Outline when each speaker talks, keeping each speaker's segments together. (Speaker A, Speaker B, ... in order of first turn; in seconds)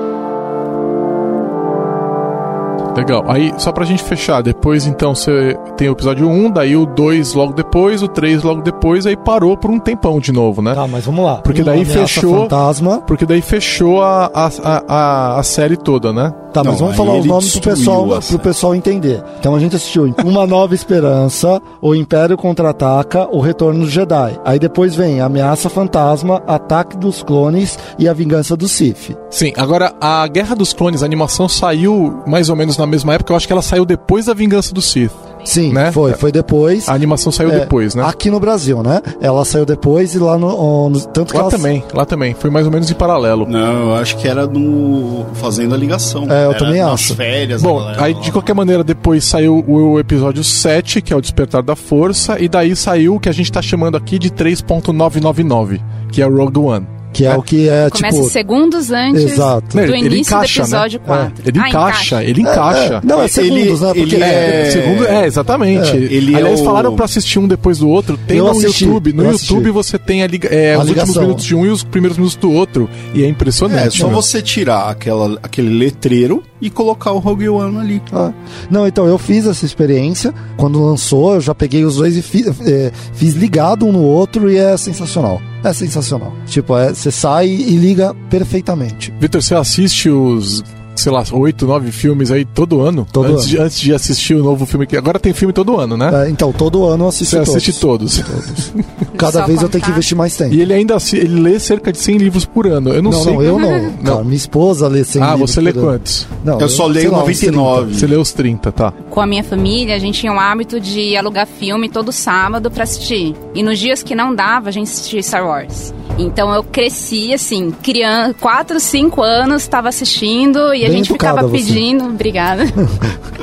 Speaker A: 3.0-10.8, 11.4-16.4, 29.3-35.2, 35.7-36.2, 36.9-38.1, 41.3-43.5, 47.6-57.4, 59.7-63.0, 64.2-74.2, 89.2-96.2, 97.2-98.9, 100.5-104.2, 105.2-106.3, 107.9-109.0
Speaker B: 10.7-13.1, 16.5-29.2, 35.5-41.7, 46.3-47.2, 57.1-58.4, 59.1-59.9, 61.1-61.3, 62.4-64.8, 65.7-66.0, 68.3-69.7, 70.7-71.5, 73.9-74.2, 78.1-89.1, 93.1-93.5, 96.1-100.6, 103.0-108.0, 120.8-121.8
Speaker C: 16.6-18.5, 43.5-48.5, 63.1-65.3, 66.1-67.1, 73.7-78.1, 106.6-108.1
Speaker D: 57.9-62.2, 99.1-100.0, 109.1-122.9